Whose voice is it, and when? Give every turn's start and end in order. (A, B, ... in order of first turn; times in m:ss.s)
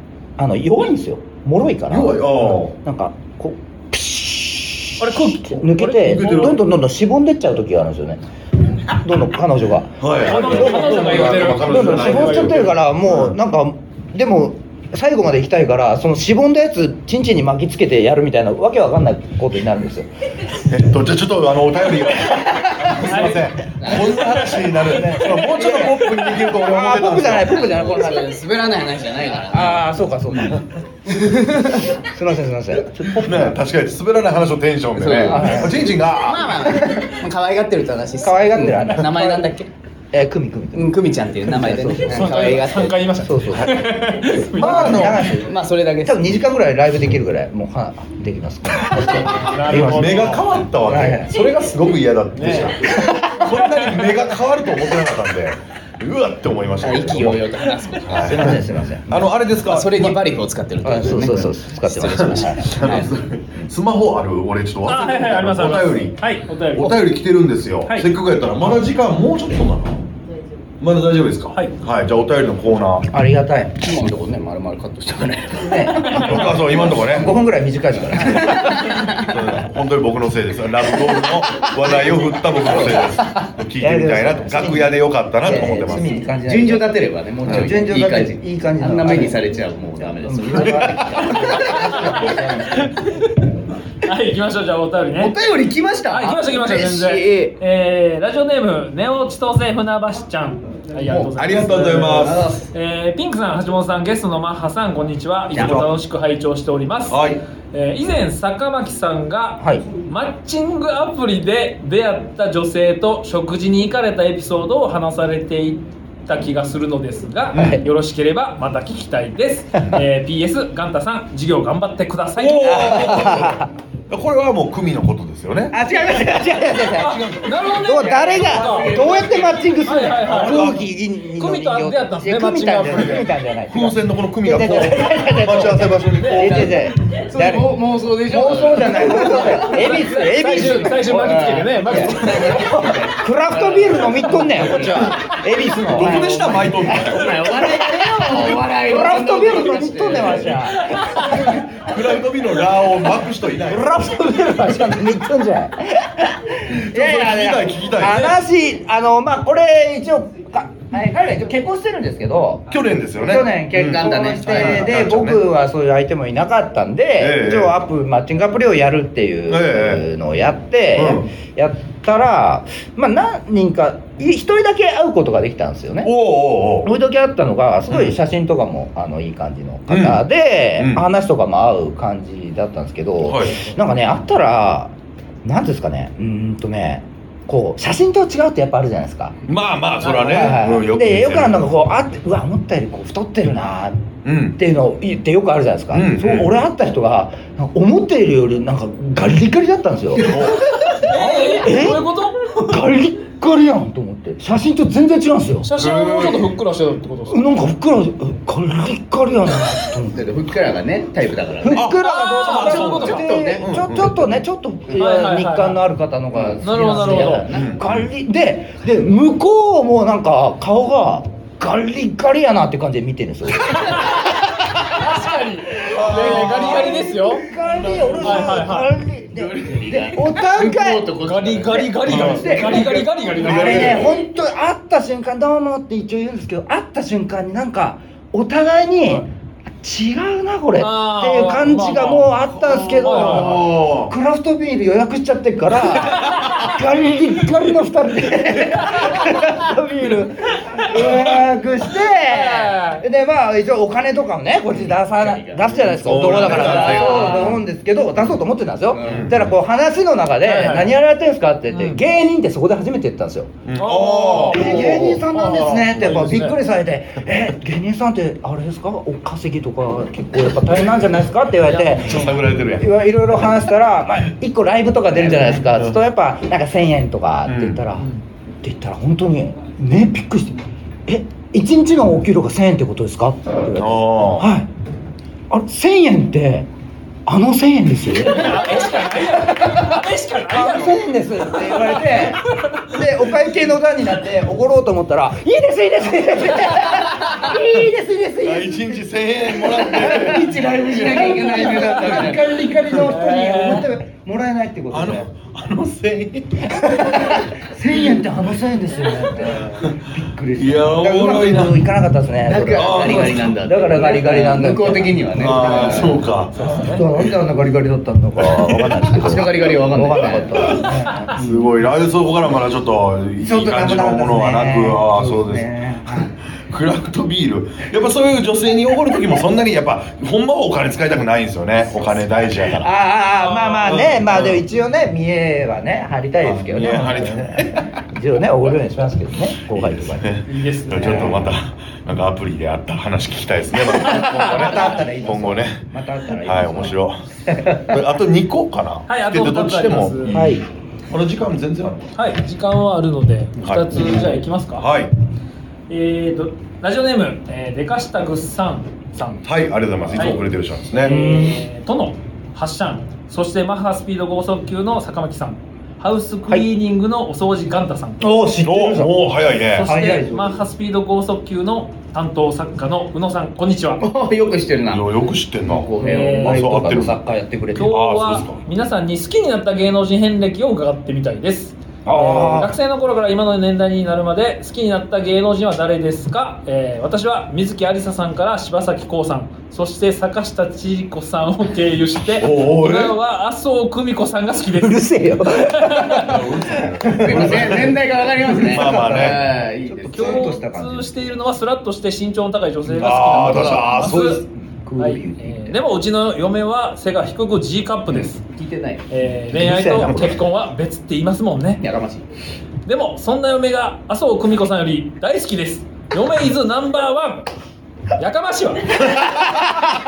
0:00.4-0:08.2 A
0:01.9-0:02.7 B
0:05.0-0:06.6 C
0:06.0-0:06.6 B
0:08.9-0:20.1 A
0:10.0-0:13.4 B
0:10.2-0:12.8 C
0:20.6-0:28.1 B
0:22.4-0:23.2 A
0:23.0-0:23.5 C
0:23.8-0:24.3 D
0:24.1-0:24.5 C
0:24.8-0:28.3 A
0:27.5-0:30.5 D
0:29.5-0:30.7 A
0:31.0-0:32.0 D
0:31.7-0:33.6 A
0:33.2-0:36.8 B
0:35.0-0:39.7 D
0:35.3-0:35.9 A
0:36.6-0:37.1 A
0:38.2-0:39.5 A
0:40.1-0:42.6 A
0:40.7-0:43.0 D
0:42.1-0:45.3 C
0:43.1-0:51.3 A
0:44.6-0:46.4 D
0:44.7-0:45.2 B
0:48.8-0:50.5 C
0:49.4-0:57.5 B
0:52.3-0:54.0 C
0:53.0-0:53.3 A
0:56.8-0:58.4 D
0:58.0-1:00.2 B
0:58.2-0:59.3 A
0:59.6-1:03.1 D
1:00.8-1:03.0 A
1:02.4-1:06.2 B
1:04.8-1:07.0 C
1:06.7-1:10.0 B
1:07.8-1:08.1 C
1:10.8-1:13.1 B
1:13.1-1:13.8 A
1:13.8-1:16.4 D
1:15.6-1:18.9 A
1:16.0-1:17.4 B
1:16.0-1:16.5 C
1:18.2-1:19.4 D
1:19.2-1:26.3 B
1:22.6-1:23.4 D
1:23.8-1:29.4 A
1:26.4-1:32.0 D
1:30.2-1:33.1 A
1:30.6-1:31.5 B
1:31.6-1:31.9 C
1:32.8-1:33.2 C
1:34.0-1:35.4 C
1:35.2-1:37.6 D
1:36.1-2:03.4 C
1:41.0-1:41.3 D
1:41.3-1:42.5 B
1:41.9-1:42.7 D
1:45.5-1:45.9 B
1:47.1-1:47.4 B
1:49.6-1:49.8 A
1:57.5-1:57.8 B
2:02.4-2:05.8 B
2:02.6-2:03.7 A
2:05.7-2:31.6 A
2:06.9-2:07.8 B
2:07.0-2:09.1 C
2:08.0-2:09.7 D
2:09.8-2:10.6 C
2:10.2-2:10.9 B
2:11.3-2:13.3 C
2:13.7-2:16.9 B
2:16.2-2:16.7 C
2:17.1-2:20.0 D
2:19.2-2:22.7 C
2:20.8-2:25.2 D
2:25.9-2:27.4 B
2:26.0-2:30.6 D
2:30.9-2:31.2 C
2:31.2-2:34.2 B
2:33.6-2:42.6 A
2:36.7-2:38.4 B
2:42.7-2:45.4 B
2:43.2-2:56.1 A
2:43.8-2:45.0 D
2:47.2-2:47.8 B
2:49.5-2:50.0 B
2:50.9-2:51.3 B
2:56.0-2:56.9 B
2:56.8-3:09.4 A
2:57.9-2:58.2 B
2:59.9-3:00.2 B
3:00.8-3:01.0 B
3:03.2-3:03.6 B
3:09.5-3:11.7 B
3:10.0-3:25.7 A
3:14.2-3:14.6 B
3:15.9-3:16.5 B
3:20.2-3:20.7 B
3:21.0-3:22.6 C
3:21.3-3:21.6 D
3:25.6-3:27.4 C
3:25.7-3:26.5 B
3:27.3-3:30.2 A
3:30.1-3:31.9 D
3:31.6-3:44.4 A
3:31.7-3:34.4 B
3:32.0-3:33.4 C
3:32.5-3:33.7 D
3:34.9-3:35.8 C
3:36.5-3:37.6 D
3:36.6-3:37.5 C
3:37.5-3:38.1 B
3:43.8-3:44.3 C
3:44.9-3:47.5 C
3:45.8-3:51.1 A
3:45.9-3:46.9 B
3:47.8-3:48.4 D
3:48.2-3:49.0 C
3:49.3-3:52.1 D
3:51.2-3:54.1 C
3:51.8-3:59.3 A
3:52.0-3:52.9 B
3:52.7-3:53.0 D
3:53.4-3:54.1 B
3:59.8-4:23.5 A
4:00.8-4:02.4 C
4:02.5-4:04.1 B
4:03.0-4:03.7 C
4:06.1-4:06.6 C
4:10.8-4:11.2 C
4:12.2-4:13.0 C
4:14.7-4:17.6 D
4:15.8-4:17.6 B
4:18.9-4:19.3 D
4:19.0-4:19.5 B
4:20.4-4:20.9 C
4:21.7-4:22.0 C
4:23.6-4:25.1 B
4:23.8-4:26.6 C
4:24.5-4:38.1 A
4:24.8-4:25.2 D
4:26.0-4:26.4 B
4:31.7-4:32.3 C
4:32.0-4:33.5 B
4:35.3-4:36.0 B
4:37.4-4:37.8 B
4:38.6-4:44.7 A
4:43.7-4:44.5 B
4:45.5-4:46.7 A
4:47.2-4:50.0 A
4:48.2-4:52.8 C
4:50.5-5:05.3 A
4:58.4-5:01.2 B
5:00.0-5:02.6 D
5:02.9-5:03.9 C
5:04.9-5:07.3 B
5:06.8-5:21.6 A
5:09.4-5:10.0 B
5:10.5-5:11.9 B
5:12.4-5:16.3 D
5:12.7-5:13.5 B
5:15.3-5:16.5 B
5:16.5-5:17.1 C
5:18.4-5:19.5 B
5:19.1-5:20.8 D
5:20.6-5:32.9 B
5:23.4-5:26.3 A
5:32.8-5:40.4 A
5:33.4-5:34.1 C
5:33.8-5:34.6 B
5:36.4-5:37.8 B
5:39.7-5:45.9 B
5:40.4-5:41.5 C
5:40.9-5:41.5 A
5:44.0-5:47.0 A
5:44.1-5:44.7 C
5:46.4-5:47.2 B
5:47.5-5:48.0 A
5:47.9-5:52.2 B
5:49.1-5:50.5 C
5:50.3-5:50.6 A
5:52.2-5:54.9 C
5:53.6-5:55.1 B
5:55.9-5:59.4 C
5:59.4-6:01.2 B
6:00.1-6:00.4 C
6:01.0-6:08.4 C
6:01.0-6:01.6 A
6:08.2-6:09.1 A
6:08.6-6:10.0 B
6:09.7-6:14.0 C
6:09.8-6:10.6 A
6:14.0-6:16.7 D
6:14.9-6:17.2 B
6:16.0-6:16.6 C
6:16.4-6:18.0 A
6:17.7-6:36.4 C
6:17.8-6:18.6 B
6:22.0-6:22.7 A
6:32.3-6:33.2 B
6:34.7-6:37.9 A
6:36.0-6:38.0 B
6:37.1-6:40.5 D
6:38.5-6:41.1 A
6:38.6-6:39.5 B
6:40.1-6:44.4 C
6:42.9-6:44.4 B
6:43.4-6:45.8 A
6:45.0-6:48.4 C
6:48.1-6:49.0 D
6:49.1-6:51.8 C
6:49.5-6:50.2 A
6:49.9-6:50.3 B
6:51.8-6:52.2 D
6:52.8-6:57.5 C
6:58.2-6:59.2 C